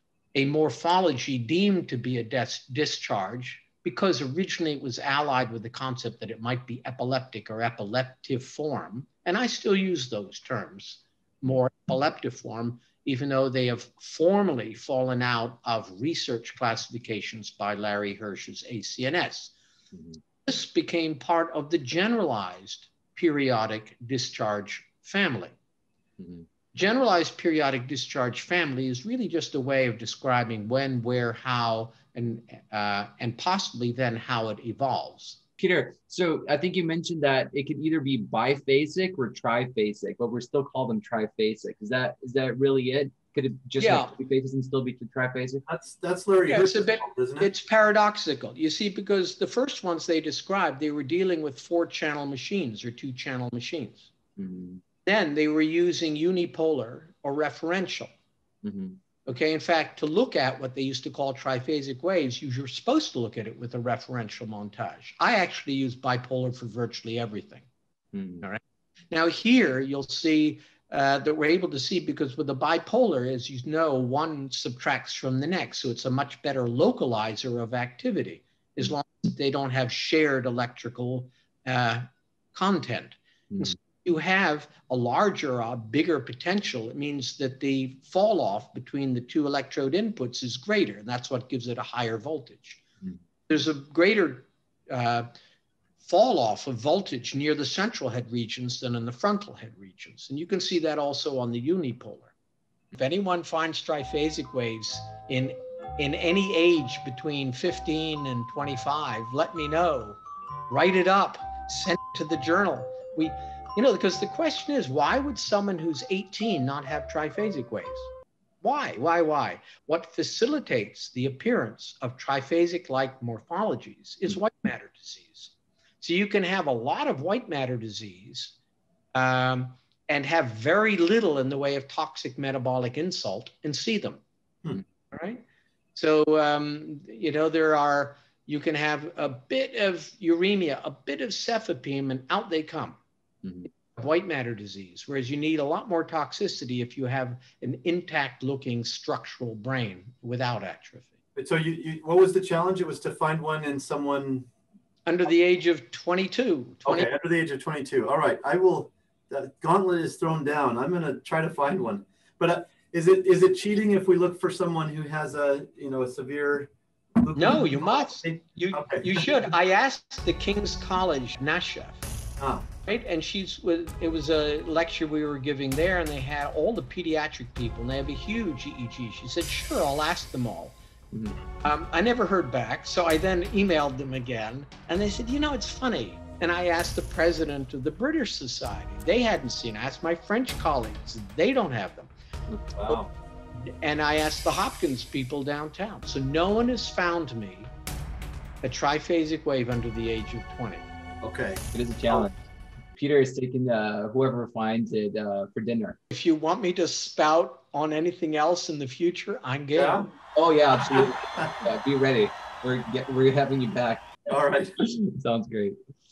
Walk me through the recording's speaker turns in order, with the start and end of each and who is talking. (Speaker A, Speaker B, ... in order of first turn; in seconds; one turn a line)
Speaker A: 0.3-19.5
Speaker B: 19.9-20.2
Speaker A: 20.5-25.6
Speaker B: 26.2-26.5
Speaker A: 26.7-35.4
Speaker B: 35.6-45.6
Speaker A: 43.8-44.1
Speaker C: 45.7-47.5
Speaker A: 46.5-54.1
Speaker B: 54.4-54.8
Speaker A: 55.0-58.1
Speaker B: 58.6-59.0
Speaker A: 59.3-67.7
Speaker B: 68.1-68.5
Speaker A: 68.4-92.8
Speaker A: 93.5-95.3
Speaker A: 96.0-102.3
Speaker A: 102.9-118.1
Speaker A: 118.6-128.6
Speaker A: 129.1-134.2
Speaker A: 135.1-143.0
Speaker A: 143.9-151.1
Speaker C: 151.4-154.5
Speaker A: 155.1-157.1
Speaker C: 156.8-169.3
Speaker A: 167.4-172.0
Speaker C: 172.4-172.7
Speaker A: 172.9-180.8
Speaker B: 181.1-181.4
Speaker A: 181.6-192.1
Speaker B: 192.5-192.8
Speaker C: 192.8-193.1
Speaker A: 193.7-197.7
Speaker A: 198.6-200.9
Speaker C: 201.2-202.3
Speaker B: 201.7-202.4
Speaker B: 203.0-206.0
Speaker A: 206.1-210.1
Speaker C: 209.7-210.1
Speaker B: 210.3-214.2
Speaker C: 214.3-214.8
Speaker B: 214.8-215.8